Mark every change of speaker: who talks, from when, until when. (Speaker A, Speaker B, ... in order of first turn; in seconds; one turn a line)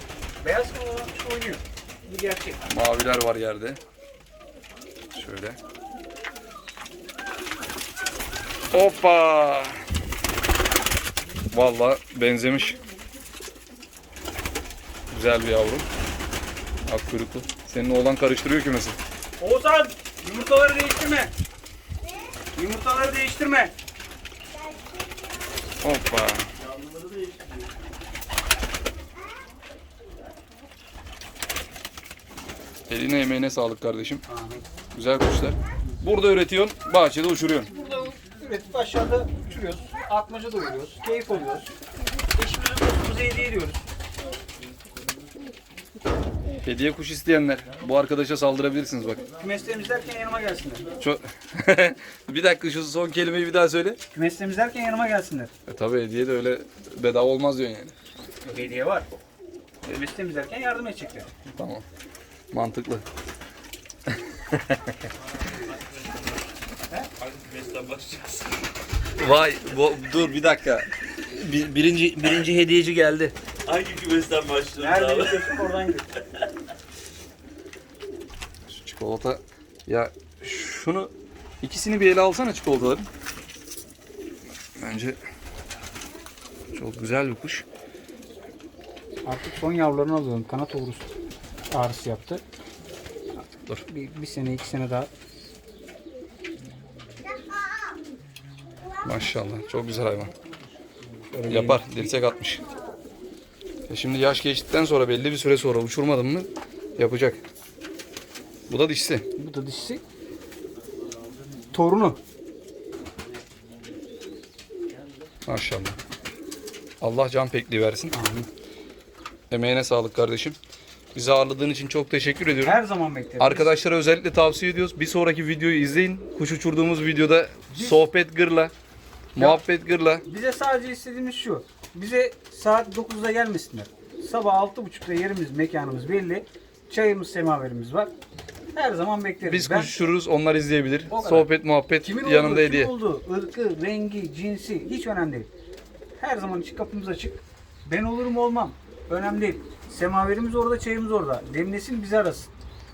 Speaker A: 0.4-2.6
Speaker B: 2.7-3.8
Speaker B: 5.1-5.6
Speaker B: 8.7-9.8
Speaker B: 11.5-12.8
Speaker B: 15.1-15.9
Speaker B: 16.9-19.0
Speaker A: 19.4-21.3
Speaker A: 22.6-23.7
Speaker B: 25.8-26.5
Speaker C: 26.9-27.5
Speaker B: 32.9-34.2
Speaker A: 34.3-34.7
Speaker B: 34.9-37.7
Speaker A: 37.7-41.8
Speaker A: 42.4-43.8
Speaker B: 46.6-49.3
Speaker A: 49.4-50.9
Speaker B: 51.0-54.0
Speaker A: 54.1-55.5
Speaker B: 55.7-58.0
Speaker A: 58.4-59.1
Speaker A: 59.8-61.3
Speaker B: 61.5-61.9
Speaker B: 62.5-63.0
Speaker B: 64.1-65.0
Speaker C: 65.6-66.0
Speaker C: 67.2-68.5
Speaker B: 69.2-73.4
Speaker C: 73.7-74.8
Speaker A: 74.8-76.1
Speaker B: 78.7-83.1
Speaker B: 84.8-85.2
Speaker B: 86.7-87.7
Speaker A: 89.2-91.1
Speaker A: 91.7-92.4
Speaker A: 93.9-95.1
Speaker B: 99.0-100.3
Speaker A: 101.3-102.1
Speaker B: 101.5-102.7
Speaker B: 103.9-107.4
Speaker B: 108.7-109.3
Speaker A: 109.4-110.0
Speaker A: 111.7-112.2
Speaker B: 115.5-116.0
Speaker B: 117.0-118.2
Speaker A: 118.1-118.5
Speaker B: 119.5-120.6
Speaker B: 121.1-122.8
Speaker A: 122.6-123.7
Speaker B: 123.4-128.7
Speaker A: 127.7-128.0
Speaker B: 129.3-130.2
Speaker A: 129.4-129.6
Speaker A: 130.2-138.1
Speaker A: 138.7-140.0
Speaker B: 139.4-142.9
Speaker A: 141.1-141.5
Speaker A: 142.0-145.5
Speaker A: 146.2-152.5